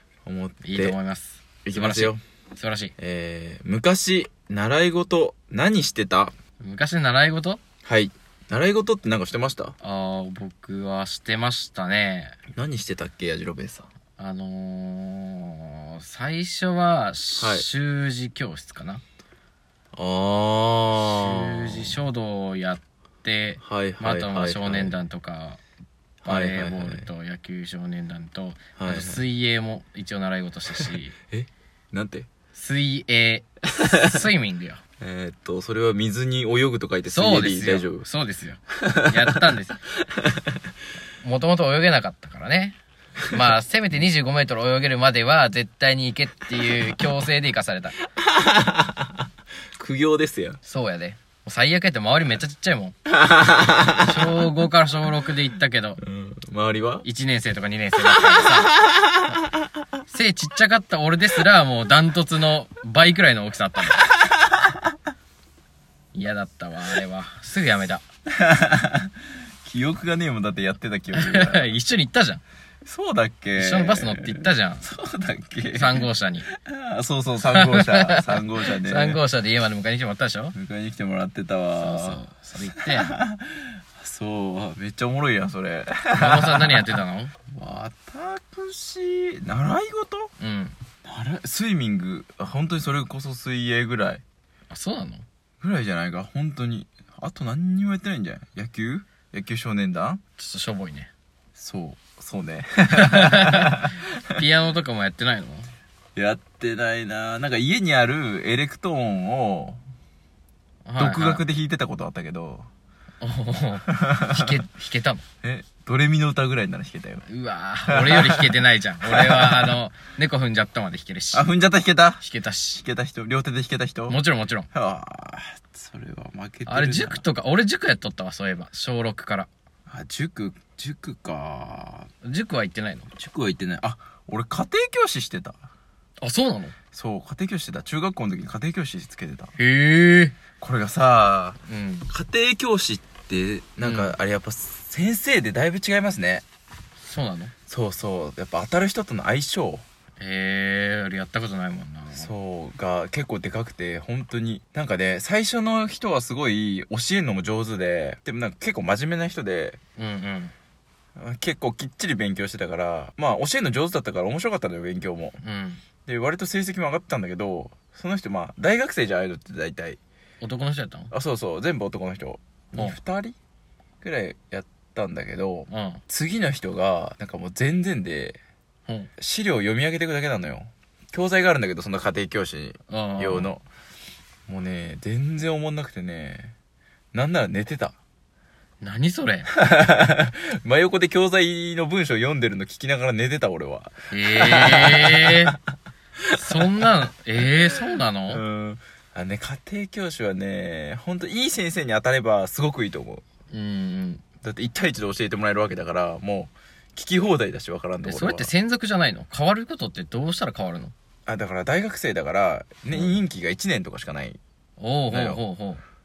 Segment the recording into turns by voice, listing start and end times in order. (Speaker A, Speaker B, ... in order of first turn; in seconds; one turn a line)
Speaker A: 0.2-1.0
Speaker B: 0.6-2.9
Speaker A: 1.6-2.2
Speaker A: 3.0-6.3
Speaker B: 6.6-7.6
Speaker A: 7.8-9.8
Speaker B: 9.8-12.4
Speaker A: 12.5-13.9
Speaker B: 14.2-19.0
Speaker A: 17.4-17.7
Speaker A: 19.9-22.0
Speaker B: 21.0-25.6
Speaker A: 23.6-25.0
Speaker A: 26.2-27.1
Speaker B: 26.3-31.1
Speaker A: 28.8-29.2
Speaker A: 30.8-32.3
Speaker B: 32.5-34.8
Speaker A: 35.0-38.1
Speaker B: 37.1-39.8
Speaker A: 38.8-39.5
Speaker A: 40.1-40.6
Speaker B: 41.2-42.8
Speaker B: 43.3-48.0
Speaker A: 48.2-49.1
Speaker A: 49.8-50.6
Speaker B: 50.7-53.0
Speaker A: 53.1-54.4
Speaker B: 53.9-56.0
Speaker A: 56.0-57.1
Speaker B: 57.0-58.7
Speaker A: 58.1-59.4
Speaker B: 60.1-64.0
Speaker B: 66.1-68.0
Speaker A: 68.3-69.1
Speaker A: 69.6-71.7
Speaker B: 71.1-72.4
Speaker A: 72.8-79.2
Speaker B: 73.6-74.8
Speaker B: 75.7-76.5
Speaker B: 77.4-80.5
Speaker A: 80.5-82.2
Speaker B: 81.8-83.1
Speaker A: 82.7-90.3
Speaker B: 86.2-87.3
Speaker B: 90.4-90.8
Speaker A: 91.0-94.2
Speaker B: 94.7-95.2
Speaker A: 95.6-100.2
Speaker B: 100.4-101.1
Speaker A: 101.6-104.4
Speaker B: 102.9-105.7
Speaker A: 106.2-109.8
Speaker B: 110.9-111.5
Speaker A: 111.0-112.7
Speaker B: 113.2-115.2
Speaker A: 113.9-114.6
Speaker A: 115.4-117.3
Speaker B: 117.3-121.5
Speaker A: 117.9-119.8
Speaker A: 121.3-122.2
Speaker B: 122.2-122.8
Speaker A: 122.8-124.2
Speaker B: 124.1-124.7
Speaker A: 124.7-127.2
Speaker B: 126.7-129.5
Speaker A: 129.9-132.1
Speaker B: 132.2-133.1
Speaker A: 133.2-135.7
Speaker B: 136.2-136.8
Speaker A: 136.9-139.6
Speaker B: 139.6-140.4
Speaker A: 140.6-146.4
Speaker B: 141.7-142.1
Speaker B: 143.8-144.2
Speaker B: 147.0-147.5
Speaker A: 147.7-149.8
Speaker B: 150.2-152.3
Speaker A: 152.1-159.8
Speaker B: 160.0-160.5
Speaker A: 161.2-165.4
Speaker B: 165.4-165.8
Speaker A: 166.1-170.0
Speaker B: 170.4-171.1
Speaker A: 171.1-173.4
Speaker A: 174.0-178.4
Speaker B: 175.7-176.0
Speaker A: 179.2-183.6
Speaker B: 182.9-183.5
Speaker A: 184.5-186.5
Speaker A: 187.1-188.0
Speaker B: 188.8-189.5
Speaker A: 189.5-195.6
Speaker B: 194.1-195.6
Speaker A: 196.2-203.2
Speaker B: 196.4-198.4
Speaker B: 203.5-204.2
Speaker A: 204.4-208.5
Speaker B: 208.0-210.9
Speaker A: 211.3-214.4
Speaker B: 212.9-213.2
Speaker B: 214.8-215.8
Speaker A: 215.1-215.4